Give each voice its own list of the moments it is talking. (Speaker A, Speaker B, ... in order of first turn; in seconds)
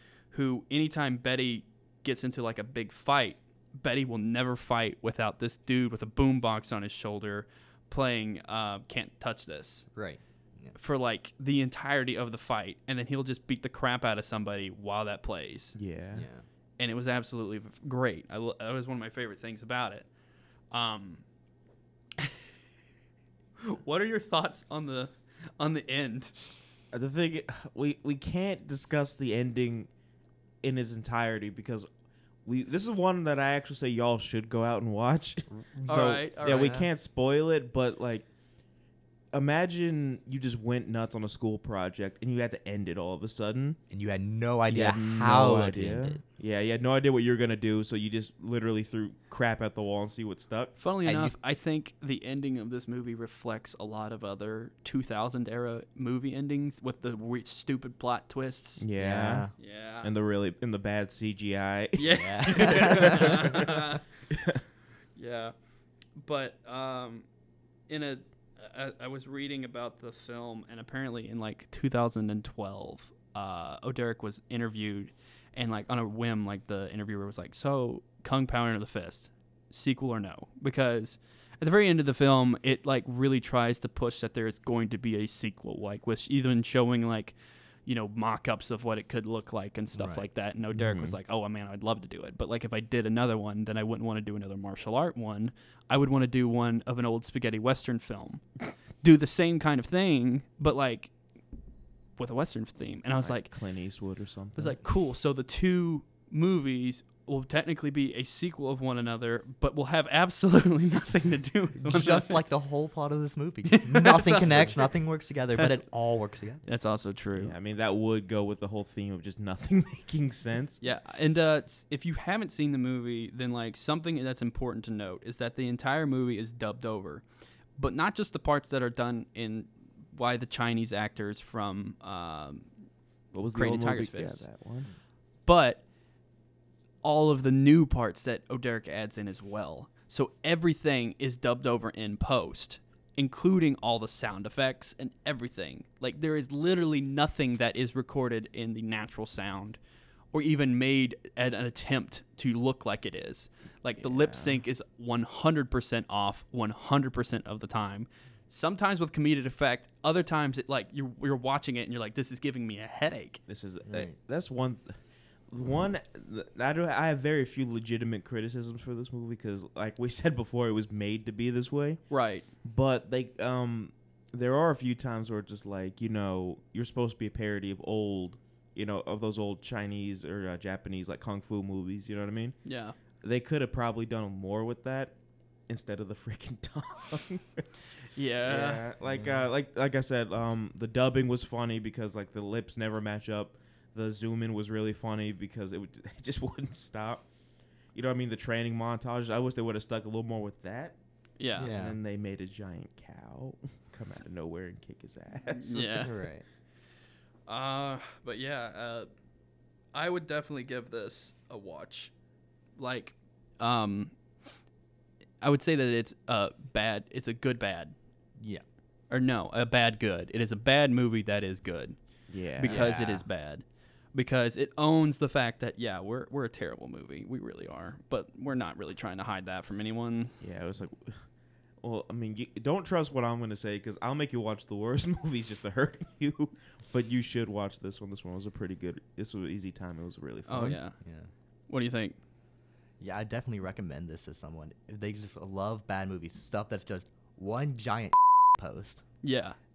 Speaker A: 0.3-9.9, 10.8-15.7, 16.8-20.1, 20.7-21.2, 23.6-26.3, 35.8-36.9, 50.8-58.9, 59.6-60.1, 62.0-64.0, 65.2-65.5, 66.2-67.2, 67.9-87.3, 87.8-98.4, 99.0-101.1, 102.2-103.5, 104.5-112.4, 113.7-114.9, 115.5-115.8, 116.7-117.5, 120.8-127.2, 127.8-132.7, 133.5-134.4, 135.4-135.8, 137.0-149.8, 150.3-163.4, 172.1-172.4, 182.6-182.9, 188.2-188.8, 201.4-201.7, 205.5-206.2, 207.5-209.1, 209.9-212.1, 212.8-214.1, 215.4-217.9, 219.1-221.9, 222.6-223.6, 224.1-230.3, 240.5-240.9, 241.7-242.2, 249.2-249.6
Speaker B: 9.9-10.8, 16.1-16.4, 43.9-46.2, 51.0-51.4, 59.0-59.5, 62.1-63.4, 89.9-90.3, 111.8-116.6, 163.8-164.1, 189.1-189.4, 201.6-202.0, 205.8-206.4, 222.6-223.2, 241.0-241.3, 243.0-249.0
Speaker C: 15.7-16.3, 26.9-29.9, 30.6-31.9, 32.5-38.3, 39.3-43.8, 44.7-50.7, 58.8-59.5, 60.0-63.7, 64.3-64.6, 90.7-91.2, 103.2-104.8, 114.4-114.7, 117.3-120.8, 133.3-134.9, 154.0-154.6, 163.5-164.9, 165.5-172.0, 172.6-182.5, 183.2-185.1, 185.7-187.6, 188.4-197.2, 197.9-200.9, 201.6-206.1, 222.3-222.9, 230.4-231.2, 231.8-240.8